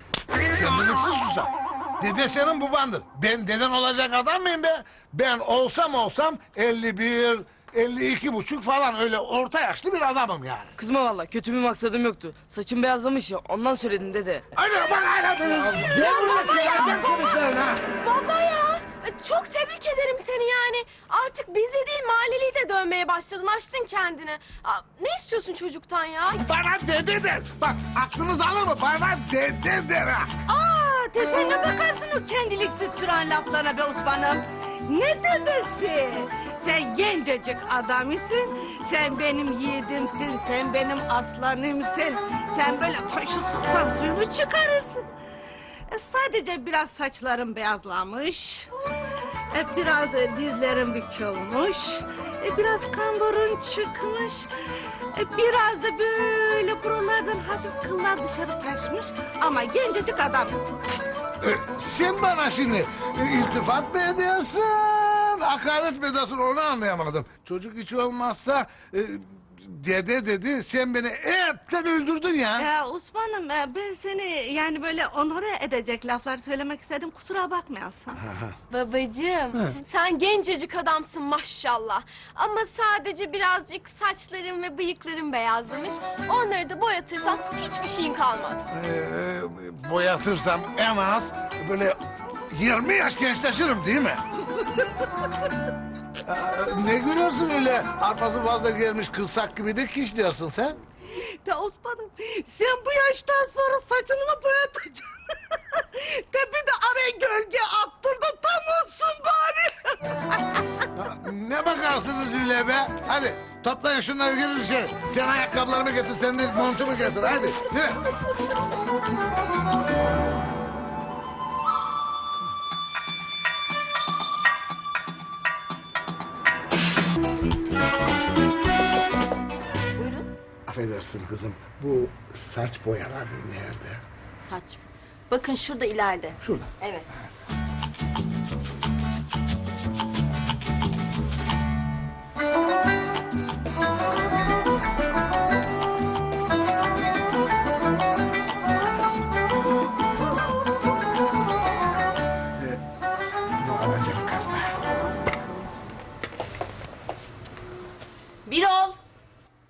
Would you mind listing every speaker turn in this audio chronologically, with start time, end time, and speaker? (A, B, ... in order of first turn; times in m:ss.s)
0:00.5-0:10.8 A
0:10.8-0:14.4 B
0:14.6-0:17.8 A
0:15.9-0:17.4 C
0:18.0-0:26.4 C
0:26.4-0:30.3 A
0:30.5-0:45.0 D
0:45.9-0:48.7 D
0:49.5-0:54.5 D
0:55.2-1:00.6 D
1:01.4-1:12.7 A
1:12.6-1:18.2 D
1:18.2-1:18.5 A
1:18.7-1:28.7 C
1:28.7-1:32.0 A
1:32.5-1:34.2 A
1:36.3-1:40.8 A
1:41.4-1:50.6 D
1:51.0-1:58.0 A
2:10.0-2:10.3 E
2:10.7-2:14.0 A
2:14.4-2:17.0 E
2:16.4-2:16.7 A
2:33.6-2:34.7 A
2:38.5-2:39.0 E